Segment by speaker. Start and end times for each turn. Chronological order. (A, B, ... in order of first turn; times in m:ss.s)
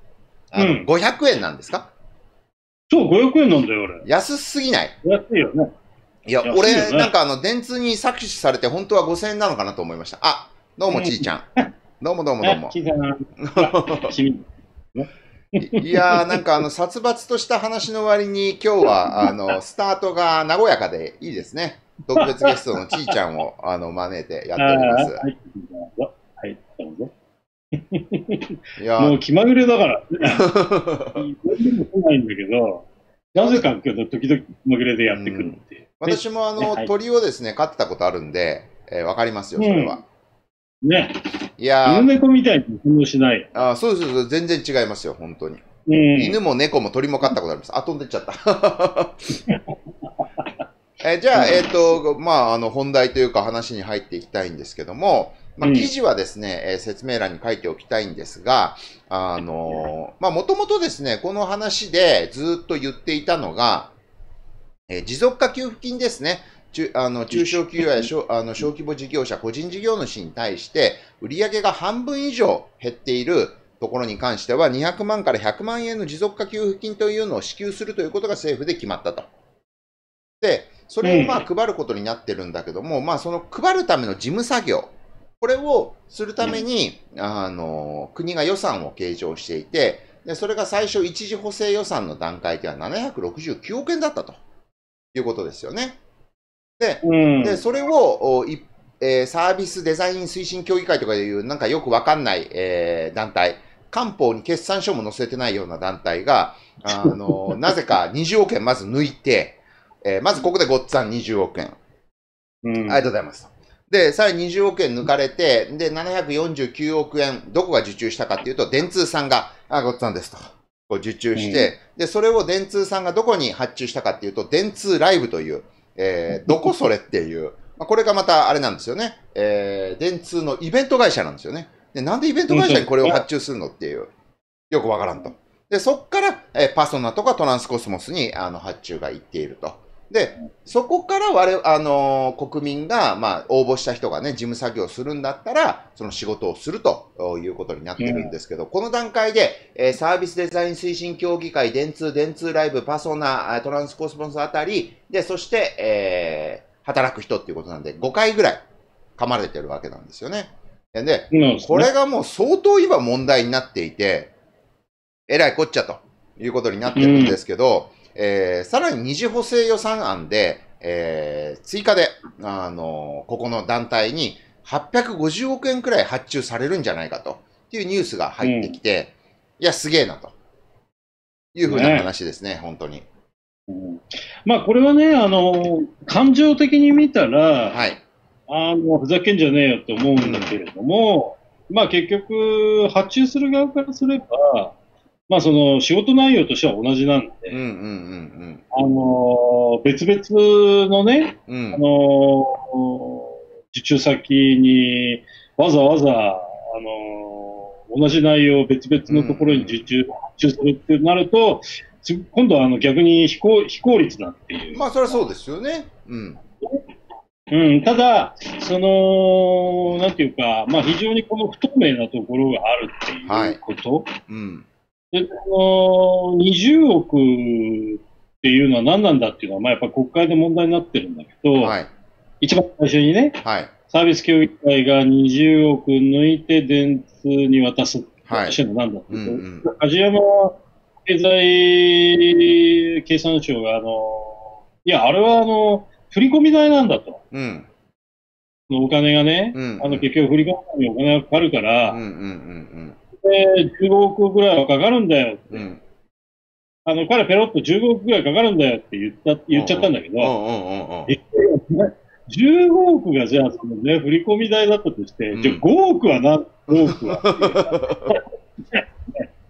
0:00.5-0:01.9 A
0:00.6-0:00.9 B
0:02.9-0:04.0 B
0:04.0-0:04.9 A
0:05.0-0:05.7 B
0:06.3-0:11.4 A
0:06.4-0:07.1 B
0:10.9-0:11.7 B
0:12.0-0:12.7 A
0:12.4-0:16.4 B
0:13.4-0:14.1 A
0:15.6-0:25.2 A
0:18.8-0:19.3 B
0:22.2-0:23.1 B
0:24.6-0:27.1 B
0:27.7-0:30.5 B
0:28.8-0:29.2 A
0:30.2-0:31.2 A
0:31.2-0:36.9 B
0:33.3-0:33.6 A
0:35.1-0:40.0 A
0:39.6-0:40.0 B
0:40.8-0:41.2 B
0:41.6-0:42.1 A
0:41.8-0:43.5 B
0:43.5-0:45.6 A
0:45.8-0:46.4 B
0:46.2-0:49.4 A
0:49.5-0:49.7 B
0:51.0-1:03.9 A
0:51.3-0:52.0 B
0:55.6-0:55.9 B
1:04.9-1:19.3 A
1:07.3-1:08.1 B
1:20.4-1:34.4 A
1:21.0-1:21.4 B
1:35.1-1:36.0 A
1:36.8-1:51.8 A
1:37.0-1:37.6 B
1:46.9-1:47.5 B
1:52.6-1:53.0 B
1:52.8-2:14.1 A
2:01.4-2:01.7 B
2:12.5-2:13.2 B
2:14.7-2:38.6 A
2:28.0-2:28.3 B
2:39.2-2:44.3 A
2:41.3-2:41.9 B
2:45.3-3:00.3 A
2:46.9-2:47.4 B
2:58.4-2:58.8 B
3:01.5-3:03.0 A
3:01.6-3:02.1 B
3:03.7-3:07.8 B
3:07.7-3:08.0 A
3:08.5-3:14.7 B
3:10.2-3:10.5 A
3:15.3-3:17.6 B
3:17.5-3:18.6 A
3:18.7-3:35.2 B
3:21.5-3:21.8 A
3:29.1-3:29.8 A
3:34.7-3:36.4 A
3:37.5-3:44.1 B
3:43.2-3:43.6 A
3:44.3-3:44.6 A
3:45.1-3:51.8 B
3:51.6-3:51.9 A
3:52.4-4:07.2 B
3:53.4-3:53.7 A
3:58.3-3:58.6 A
3:59.1-3:59.7 A
4:07.3-4:07.7 A
4:08.7-4:12.0 B
4:09.5-4:10.1 A
4:11.9-4:13.0 A
4:13.2-4:15.7 B
4:15.5-4:15.8 A
4:16.8-4:20.3 B
4:19.5-4:21.1 A
4:21.1-4:29.2 B
4:25.3-4:25.6 A
4:26.7-4:28.2 A